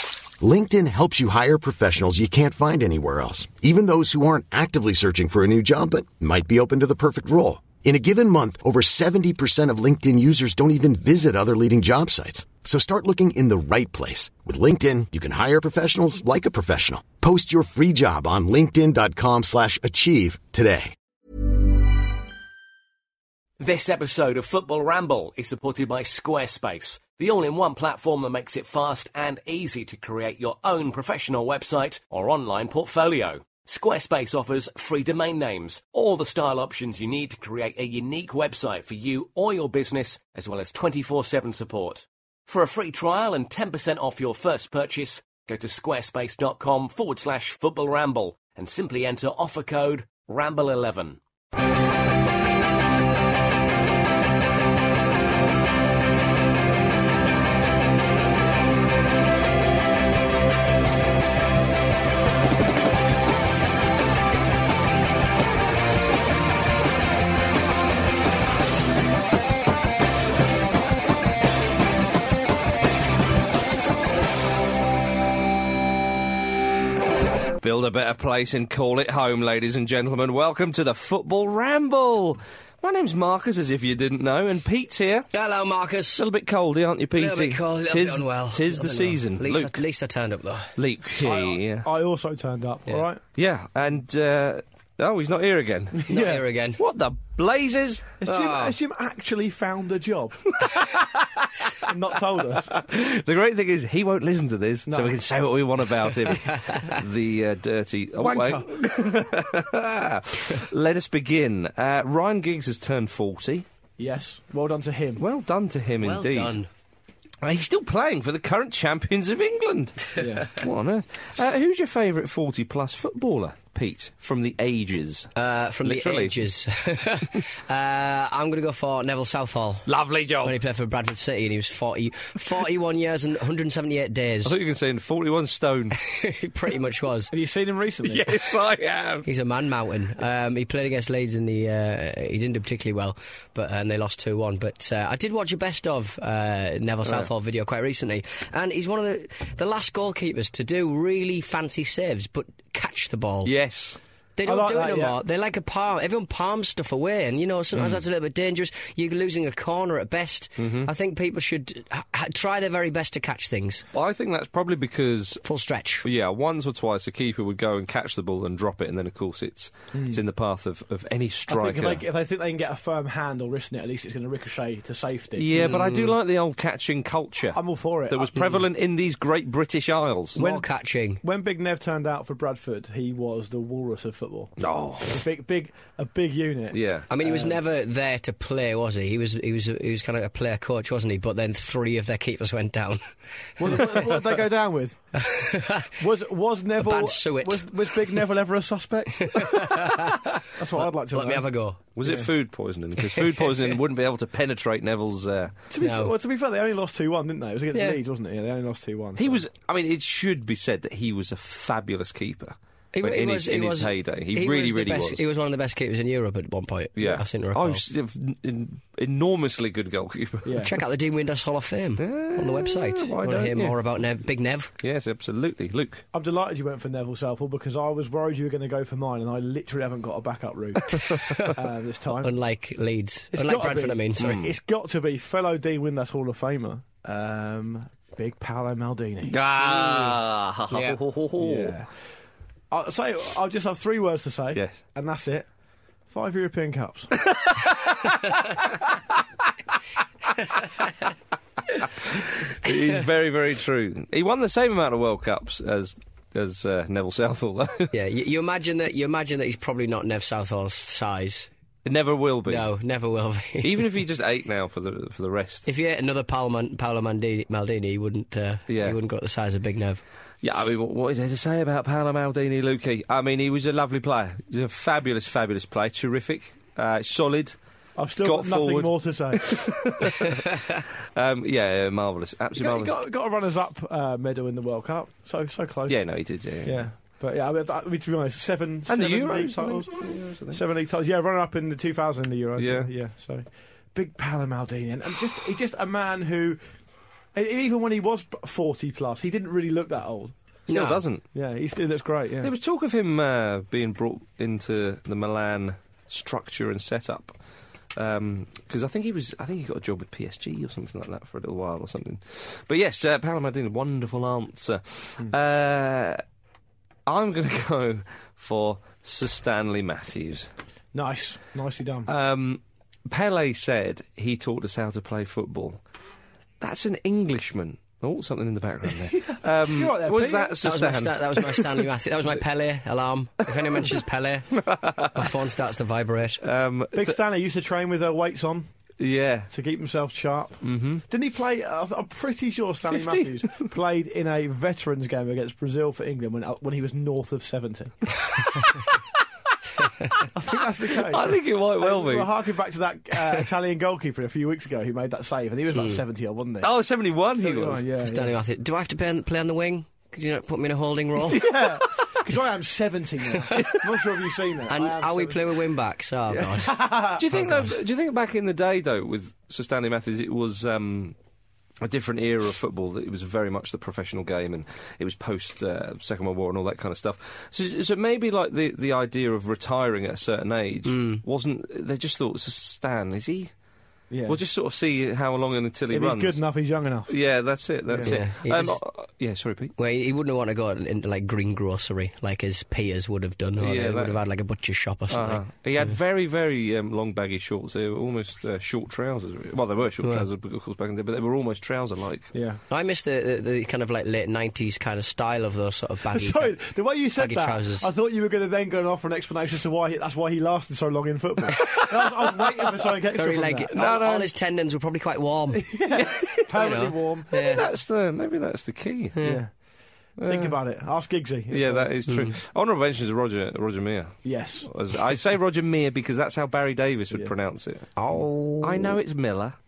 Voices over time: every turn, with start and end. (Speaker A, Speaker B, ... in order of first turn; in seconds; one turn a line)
Speaker A: 0.4-20.9
Speaker B: 23.6-51.2
Speaker C: 77.6-85.3
Speaker D: 85.3-86.2
Speaker C: 86.2-89.8
Speaker D: 87.2-90.7
Speaker C: 90.8-91.9
Speaker E: 91.2-93.2
Speaker C: 93.3-96.2
Speaker E: 96.0-96.4
Speaker D: 96.1-96.8
Speaker C: 96.8-98.2
Speaker E: 98.2-100.5
Speaker D: 98.3-98.7
Speaker C: 100.6-101.8
Speaker E: 101.8-102.7
Speaker C: 102.7-113.7
Speaker E: 104.9-105.2
Speaker E: 108.2-108.7
Speaker E: 114.0-115.2
Speaker C: 115.2-116.6
Speaker D: 116.0-116.7
Speaker C: 117.4-125.3
Speaker E: 120.2-120.5
Speaker D: 125.3-129.9
Speaker C: 125.8-126.5
Speaker C: 129.8-130.6
Speaker D: 130.4-134.6
Speaker C: 134.4-136.0
Speaker D: 136.0-137.3
Speaker E: 137.3-138.4
Speaker C: 138.0-139.3
Speaker D: 139.2-153.5
Speaker C: 153.4-154.0
Speaker D: 154.4-163.8
Speaker E: 154.4-155.2
Speaker C: 157.7-158.0
Speaker C: 160.6-160.9
Speaker C: 163.9-165.4
Speaker D: 165.4-166.1
Speaker C: 166.0-172.0
Speaker E: 169.9-170.2
Speaker E: 171.5-175.7
Speaker C: 175.3-180.4
Speaker D: 175.6-176.1
Speaker E: 177.5-178.5
Speaker D: 180.3-181.2
Speaker E: 180.4-180.6
Speaker E: 181.2-187.6
Speaker C: 184.6-185.2
Speaker C: 186.7-187.1
Speaker D: 187.1-193.1
Speaker E: 193.6-195.0
Speaker D: 193.6-193.9
Speaker D: 195.1-196.0
Speaker E: 196.0-201.5
Speaker D: 196.8-197.7
Speaker D: 199.2-201.8
Speaker C: 201.9-205.5
Speaker D: 203.1-203.4
Speaker E: 205.7-209.4
Speaker D: 205.8-206.1
Speaker D: 207.7-208.0
Speaker C: 209.2-215.2
Speaker D: 212.9-217.8
Speaker C: 217.0-220.6
Speaker E: 220.4-220.7
Speaker D: 220.6-224.7
Speaker C: 222.0-223.8
Speaker C: 224.8-226.0
Speaker E: 226.1-232.3
Speaker D: 231.1-231.5
Speaker D: 232.2-234.4
Speaker E: 233.3-240.0
Speaker C: 234.2-234.5
Speaker C: 239.2-241.8
Speaker D: 240.7-241.0
Speaker E: 241.4-241.9
Speaker E: 242.7-245.5
Speaker C: 244.5-244.8
Speaker E: 246.1-247.2
Speaker C: 247.2-248.4
Speaker C: 251.8-257.9
Speaker D: 257.9-261.5
Speaker C: 261.8-262.7
Speaker D: 262.5-263.9
Speaker C: 263.6-265.7
Speaker D: 265.6-270.0
Speaker C: 268.7-269.0
Speaker C: 270.4-277.6
Speaker E: 278.0-279.5
Speaker C: 278.2-282.9
Speaker E: 282.6-286.0
Speaker C: 285.9-286.8
Speaker E: 286.6-296.6
Speaker C: 288.9-290.6
Speaker C: 292.6-292.9
Speaker E: 297.3-300.3
Speaker D: 300.7-301.0
Speaker C: 300.7-301.2
Speaker E: 301.3-302.5
Speaker C: 302.4-307.3
Speaker C: 307.9-316.2
Speaker C: 317.1-320.5
Speaker E: 320.9-322.1
Speaker C: 322.1-325.8
Speaker C: 326.6-331.9
Speaker E: 328.9-330.6
Speaker D: 330.6-336.4
Speaker C: 333.5-333.9
Speaker C: 334.5-335.3
Speaker C: 336.4-337.2
Speaker E: 336.9-338.7
Speaker C: 339.0-339.5
Speaker E: 339.5-348.1
Speaker C: 340.6-341.0
Speaker C: 342.9-343.7
Speaker E: 350.3-356.7
Speaker C: 350.9-352.3
Speaker D: 355.7-356.0
Speaker C: 356.6-357.8
Speaker E: 357.4-358.3
Speaker D: 358.0-361.5
Speaker E: 361.3-365.4
Speaker C: 363.5-363.8
Speaker D: 364.7-366.8
Speaker E: 366.3-367.7
Speaker C: 367.2-371.1
Speaker C: 371.8-383.5
Speaker D: 380.9-381.2
Speaker E: 384.1-384.4
Speaker C: 384.2-386.4
Speaker E: 385.9-387.1
Speaker C: 387.1-389.7
Speaker E: 387.9-388.1
Speaker D: 388.0-388.8
Speaker D: 389.8-395.4
Speaker C: 393.6-394.2
Speaker C: 395.1-402.3
Speaker E: 402.3-402.6
Speaker D: 402.7-406.5
Speaker E: 406.1-413.7
Speaker D: 407.2-407.9
Speaker D: 413.1-415.7
Speaker C: 413.7-414.3
Speaker E: 415.5-417.6
Speaker C: 416.0-416.8
Speaker D: 416.5-417.6
Speaker C: 417.3-419.2
Speaker D: 419.1-419.4
Speaker E: 419.2-419.5
Speaker C: 420.2-420.6
Speaker E: 420.2-421.9
Speaker C: 421.5-427.9
Speaker D: 422.1-422.3
Speaker E: 424.2-424.7
Speaker D: 427.9-428.9
Speaker C: 428.6-429.6